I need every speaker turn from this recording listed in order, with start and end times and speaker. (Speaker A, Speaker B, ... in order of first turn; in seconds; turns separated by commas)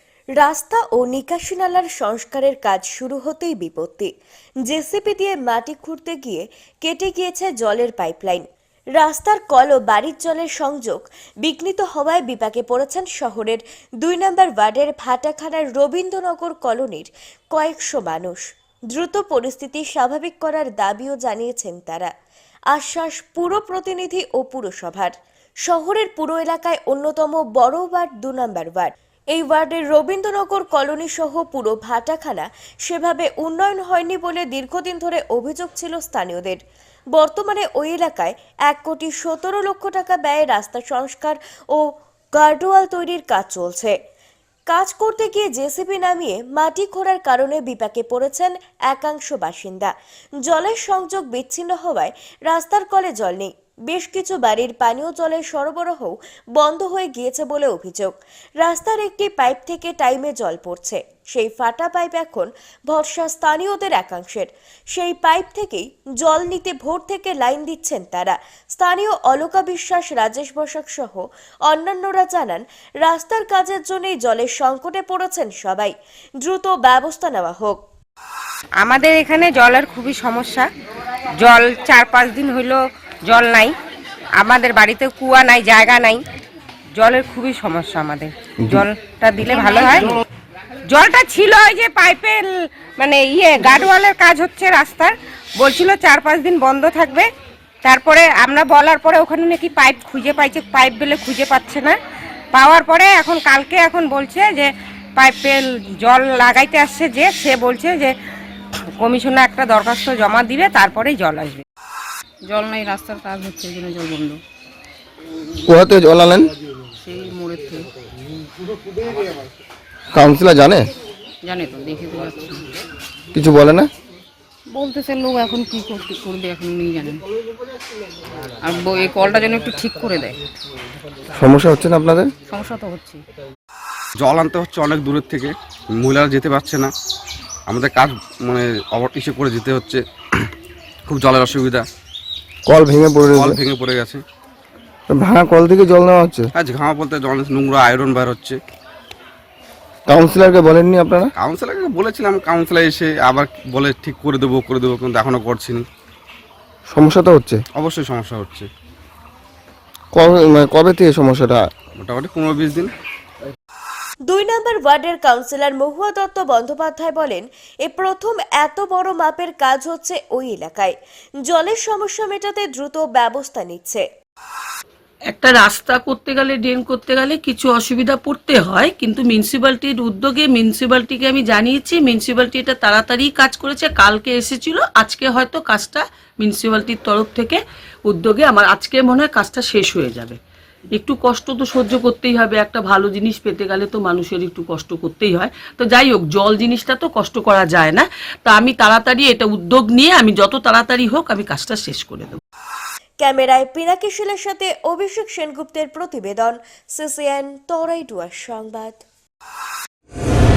Speaker A: 0.4-4.1, Speaker A: 4.7-8.5, Speaker A: 9.0-18.4, Speaker A: 18.9-22.1, Speaker A: 22.7-25.1, Speaker A: 25.7-36.6, Speaker A: 37.1-41.8, Speaker A: 42.4-44.0, Speaker A: 44.7-49.9, Speaker A: 50.5-77.8, Speaker B: 78.8-80.7, Speaker B: 81.4-83.8, Speaker B: 84.4-86.2, Speaker B: 87.0-90.2, Speaker B: 90.9-97.3, Speaker B: 97.8-102.0, Speaker B: 102.5-108.1, Speaker B: 109.0-111.6, Speaker C: 112.5-114.4, Speaker D: 115.6-116.5, Speaker C: 117.0-117.9, Speaker D: 120.1-120.9, Speaker C: 121.4-122.7, Speaker D: 123.3-123.9, Speaker C: 124.7-127.2, Speaker C: 128.6-130.4, Speaker D: 131.3-132.3, Speaker C: 132.5-133.2, Speaker E: 134.2-136.9, Speaker E: 137.7-140.5, Speaker E: 141.1-141.8, Speaker D: 142.7-143.6, Speaker E: 143.3-144.2, Speaker D: 145.1-146.5, Speaker E: 146.6-148.6, Speaker D: 150.1-151.3, Speaker E: 151.4-155.8, Speaker D: 156.9-157.6, Speaker E: 157.8-158.7, Speaker D: 160.1-161.7, Speaker E: 162.0-162.9, Speaker A: 164.3-170.9, Speaker A: 171.5-174.0, Speaker F: 175.3-190.4, Speaker F: 191.0-202.4, Speaker A: 203.2-209.0